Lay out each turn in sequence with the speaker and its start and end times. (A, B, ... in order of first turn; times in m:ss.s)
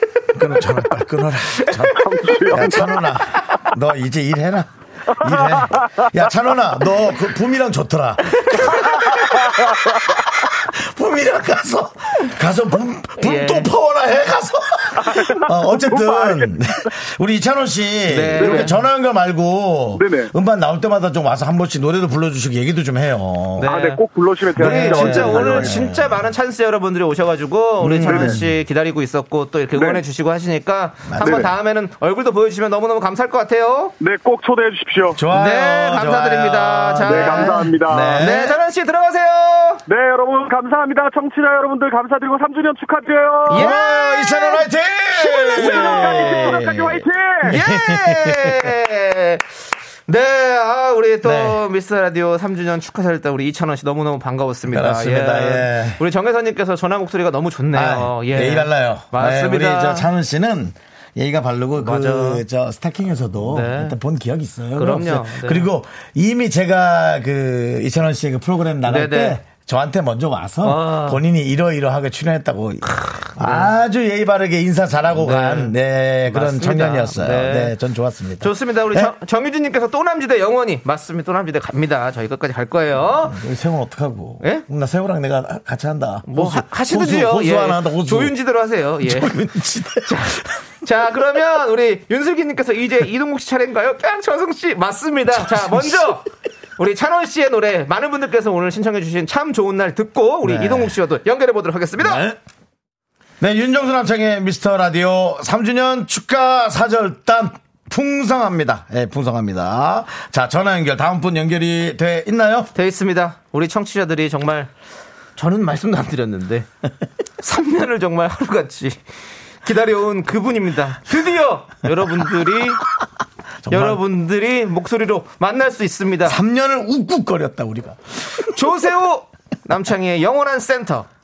0:00.3-0:23.7 A
0:01.9-0:02.9 B
0:05.2-0:06.1 B
0:08.4-0:08.8 C
0:08.7-0:10.0 B
0:13.2-0:13.7 C
0:15.0-0:16.5 B
0:18.1-0:18.8 C
0:18.4-0:18.7 B
0:20.0-0:20.3 B
0:23.6-0:24.0 C
0:23.6-0:25.8 B
0:24.5-0:33.9 C
0:24.6-0:26.3 A
0:27.8-0:28.6 A
0:28.0-0:28.4 B
0:29.7-0:30.0 B
0:31.1-0:31.5 A
0:34.0-0:35.2 B
0:35.1-0:38.6 A
0:35.3-0:39.8 C
0:37.1-0:38.2 B
0:39.9-0:43.7 B
0:43.5-0:44.6 C
0:43.5-0:48.7 A
0:45.3-0:46.7 C
0:45.4-0:47.5 B
0:47.4-0:49.4 C
0:50.1-1:00.1 C
0:51.2-0:51.6 A
0:54.7-0:56.0 A
0:57.7-1:19.1 A
1:01.8-1:02.4 C
1:03.5-1:03.9 C
1:04.8-1:05.7 C
1:08.8-1:09.4 C
1:10.6-1:11.2 C
1:12.9-1:13.7 C
1:15.1-1:15.7 C
1:16.3-1:17.7 C
1:18.4-1:23.4 C
1:23.1-1:28.3 A
1:26.3-1:29.4 C
1:29.0-1:30.5 A
1:30.0-1:36.2 C
1:35.3-1:36.2 A
1:36.8-1:42.2 C
1:40.4-1:40.9 A
1:42.0-1:42.4 A
1:43.4-1:52.7 A
1:52.7-1:54.7 C
1:55.4-1:56.7 C
1:57.4-1:59.0 C
1:59.6-2:02.8 C
2:03.6-2:04.0 A
2:03.7-2:06.4 C
2:06.2-2:08.5 A
2:08.5-2:11.1 C